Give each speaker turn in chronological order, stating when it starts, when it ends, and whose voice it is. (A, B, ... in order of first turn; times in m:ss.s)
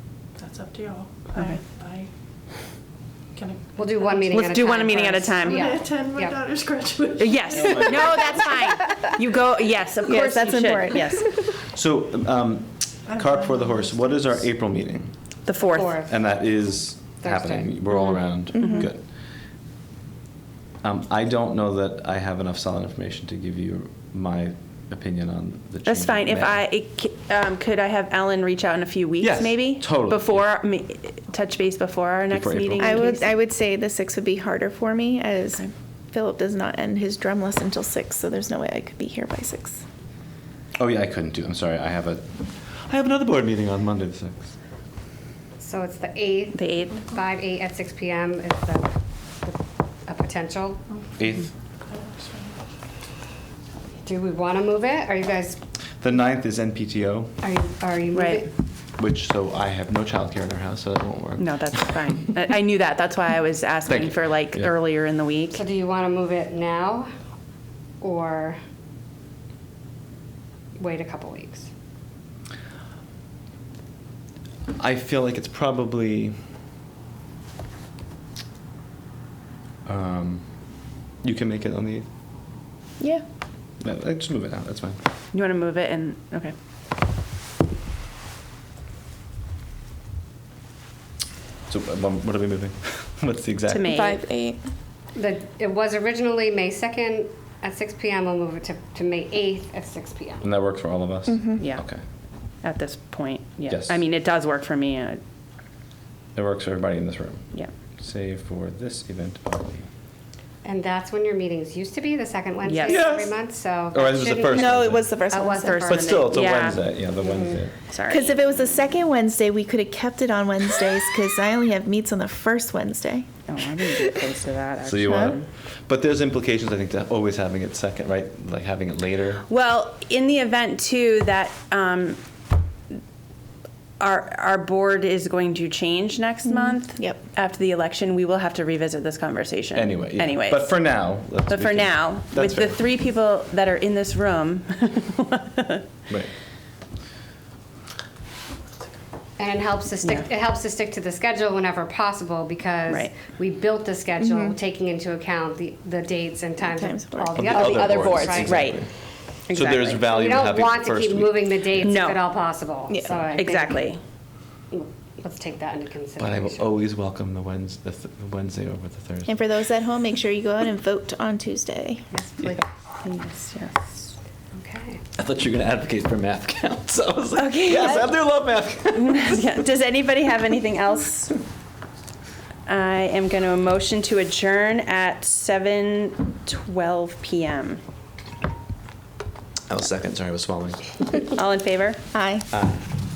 0:00.4-0:02.1 A
0:01.3-0:01.6 B
0:03.3-0:03.6 A
0:03.8-0:06.4 C
0:04.3-0:05.7 B
0:05.5-0:08.3 A
0:07.2-0:11.3 B
0:07.5-0:08.5 D
0:10.0-0:11.5 E
0:11.6-0:15.1 D
0:13.1-0:14.2 A
0:15.4-0:16.0 B
0:15.7-0:16.2 C
0:16.0-0:19.1 D
0:17.2-0:17.8 C
0:18.5-0:18.9 E
0:18.5-0:18.9 B
0:20.8-0:26.6 D
0:25.8-0:33.3 B
0:29.2-0:30.4 D
0:32.3-0:33.2 D
0:32.8-0:39.8 E
0:40.8-0:44.5 D
0:45.6-0:50.8 C
0:46.5-0:47.0 B
0:51.2-0:51.5 D
0:51.9-0:52.5 A
0:54.0-0:55.6 C
0:56.0-0:57.4 D
0:57.4-0:58.5 C
0:58.1-0:58.4 B
0:59.0-1:02.1 D
1:01.4-1:05.6 B
1:03.9-1:04.7 D
1:05.5-1:07.1 C
1:08.0-1:08.6 C
1:10.8-1:11.7 C
1:14.8-1:16.4 D
1:19.8-1:20.5 D
1:21.2-1:22.1 D
1:23.8-1:25.0 D
1:25.3-1:26.5 B
1:31.7-1:34.1 D
1:33.7-1:34.2 B
1:33.8-1:34.6 E
1:35.1-1:40.4 C
1:40.4-1:42.0 D
1:41.3-1:41.6 E
1:41.6-1:41.8 B
1:42.6-1:45.2 B
1:43.7-1:44.0 D
1:46.3-1:47.4 D
1:48.0-1:49.9 D
1:50.6-1:56.4 C
1:52.6-1:53.1 B
1:52.8-1:53.4 D
1:53.9-1:55.2 D
1:54.5-1:55.8 E
1:55.6-1:57.0 B
1:55.9-1:57.7 D
1:57.2-1:57.6 C
1:57.9-1:58.4 B
1:58.1-2:04.2 E
2:03.5-2:05.5 B
2:04.8-2:09.4 D
2:05.0-2:05.3 E
2:09.4-2:12.2 B
2:14.0-2:20.8 B
2:16.4-2:17.2 E
2:19.7-2:22.8 D
2:21.5-2:25.8 B
2:29.4-2:38.7 C
2:30.0-2:30.3 B
2:32.9-2:33.1 B
2:34.2-2:34.6 E
2:36.6-2:37.4 E
2:37.3-2:38.9 D
2:37.4-2:38.9 B
2:39.5-2:41.9 D
2:39.5-2:43.8 C
2:41.8-2:42.2 B
2:42.9-2:43.2 E
2:43.3-2:44.0 B
2:44.7-2:46.8 C
2:46.2-2:49.3 D
2:49.3-2:52.0 E
2:52.1-2:52.6 C
2:53.0-2:54.0 B
2:54.5-2:55.0 C
2:55.2-2:59.4 D
2:57.3-2:58.1 B
2:58.9-3:01.4 B
3:02.7-3:07.8 B
3:09.7-3:11.2 D
3:11.2-3:12.0 B
3:12.1-3:12.5 E
3:12.5-3:12.8 D